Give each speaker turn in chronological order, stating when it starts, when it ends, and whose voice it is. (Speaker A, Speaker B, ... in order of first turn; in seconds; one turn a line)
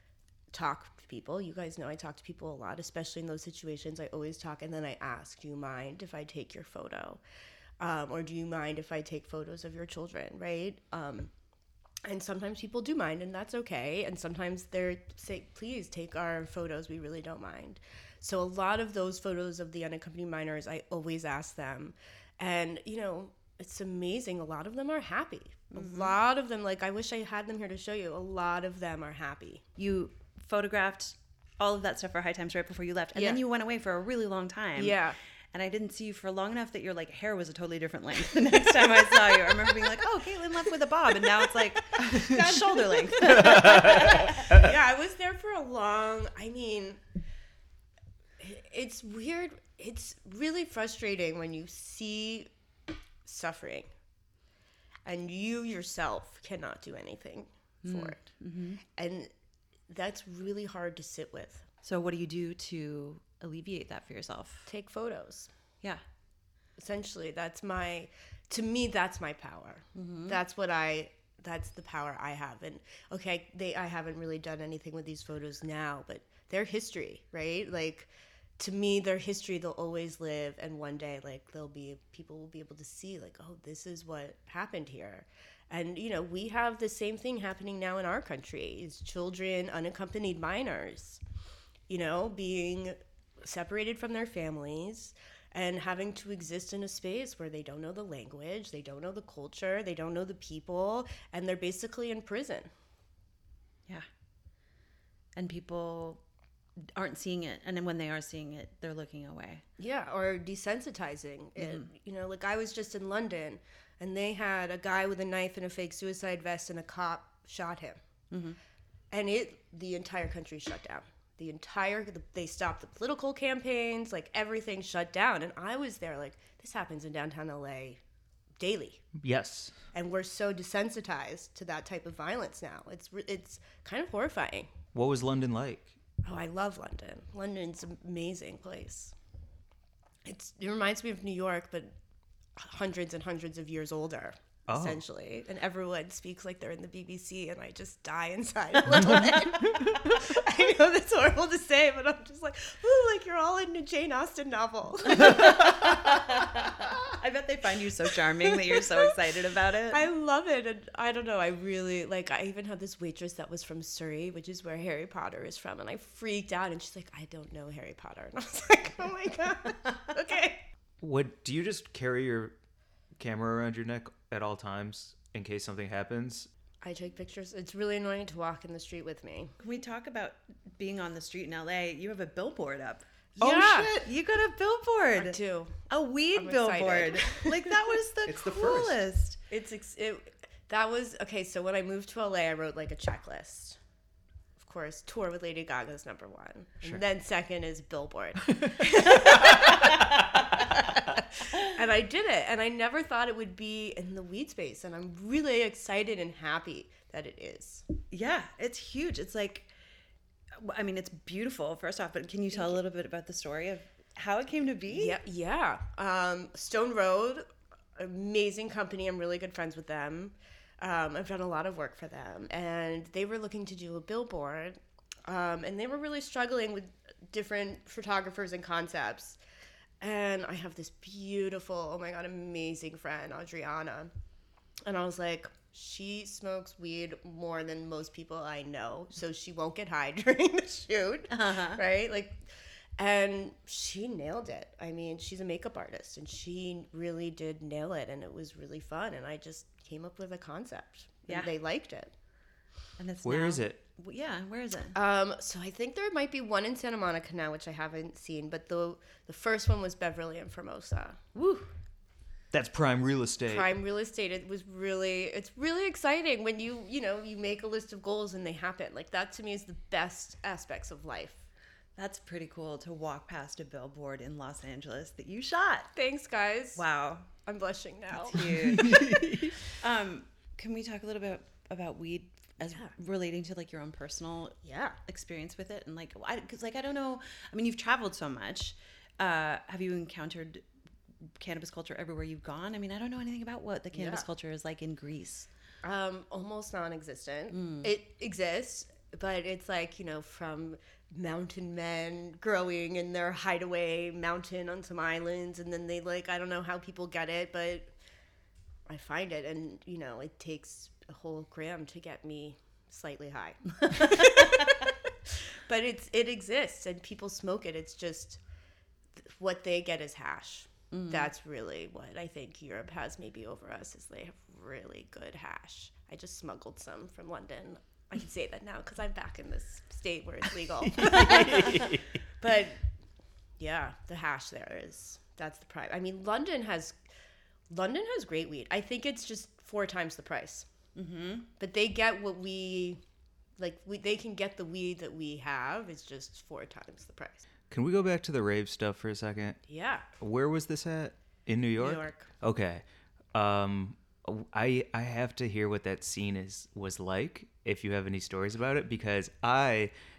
Speaker A: 0.5-7.2
Speaker A: 7.8-11.3
Speaker A: 12.1-29.6
Speaker B: 25.7-26.2
Speaker B: 29.8-35.0
Speaker A: 33.1-33.4
Speaker A: 34.8-35.2
Speaker B: 35.5-44.6
Speaker A: 42.0-47.0
Speaker C: 43.4-44.7
Speaker A: 48.4-52.5
Speaker A: 53.2-53.9
Speaker A: 55.1-58.2
Speaker B: 57.8-58.8
Speaker A: 58.9-59.3
Speaker A: 59.9-61.6
Speaker B: 61.8-64.7
Speaker A: 64.7-65.5
Speaker A: 66.8-91.2
Speaker B: 70.0-70.4
Speaker A: 91.9-102.7
Speaker B: 105.4-106.2
Speaker B: 106.9-109.6
Speaker A: 109.8-118.0
Speaker B: 111.6-111.9
Speaker B: 118.3-118.6
Speaker A: 119.1-128.0
Speaker A: 128.6-129.1
Speaker C: 129.2-129.8
Speaker A: 129.9-134.7
Speaker C: 134.9-136.0
Speaker A: 136.2-139.1
Speaker A: 140.2-141.9
Speaker A: 142.6-157.0
Speaker C: 144.7-145.0
Speaker B: 155.1-160.0
Speaker A: 158.5-159.1
Speaker A: 159.9-170.7
Speaker C: 171.0-172.6
Speaker C: 173.2-176.5
Speaker A: 176.8-179.5
Speaker B: 179.6-183.1
Speaker A: 183.4-183.9
Speaker C: 183.4-184.1
Speaker B: 184.0-185.4
Speaker A: 185.2-187.9
Speaker B: 185.9-189.4
Speaker C: 188.3-189.0
Speaker A: 189.5-193.8
Speaker A: 194.6-207.8
Speaker B: 208.1-209.7
Speaker B: 210.6-215.2
Speaker A: 214.9-229.4
Speaker A: 230.0-234.1
Speaker A: 234.8-242.4
Speaker B: 241.3-241.8
Speaker A: 243.0-252.1
Speaker B: 253.0-255.0
Speaker C: 253.2-253.8
Speaker A: 254.9-261.2
Speaker B: 261.4-261.7
Speaker C: 262.5-263.7
Speaker A: 263.5-271.4
Speaker B: 272.0-275.9
Speaker A: 275.9-278.8
Speaker B: 276.8-277.3
Speaker B: 278.2-290.6
Speaker C: 278.8-279.5
Speaker A: 284.6-285.0
Speaker B: 291.4-295.5
Speaker A: 293.9-294.3
Speaker A: 295.8-307.9
Speaker B: 297.5-297.9
Speaker A: 308.9-318.4
Speaker B: 313.8-314.7
Speaker A: 319.2-332.8
Speaker B: 320.9-321.3
Speaker C: 330.9-332.0
Speaker A: 333.6-337.0
Speaker A: 337.7-340.7
Speaker B: 341.0-341.5
Speaker A: 341.6-343.0
Speaker A: 343.6-347.4
Speaker C: 347.7-349.6
Speaker A: 349.7-350.1
Speaker C: 350.2-359.9
Speaker A: 351.8-352.3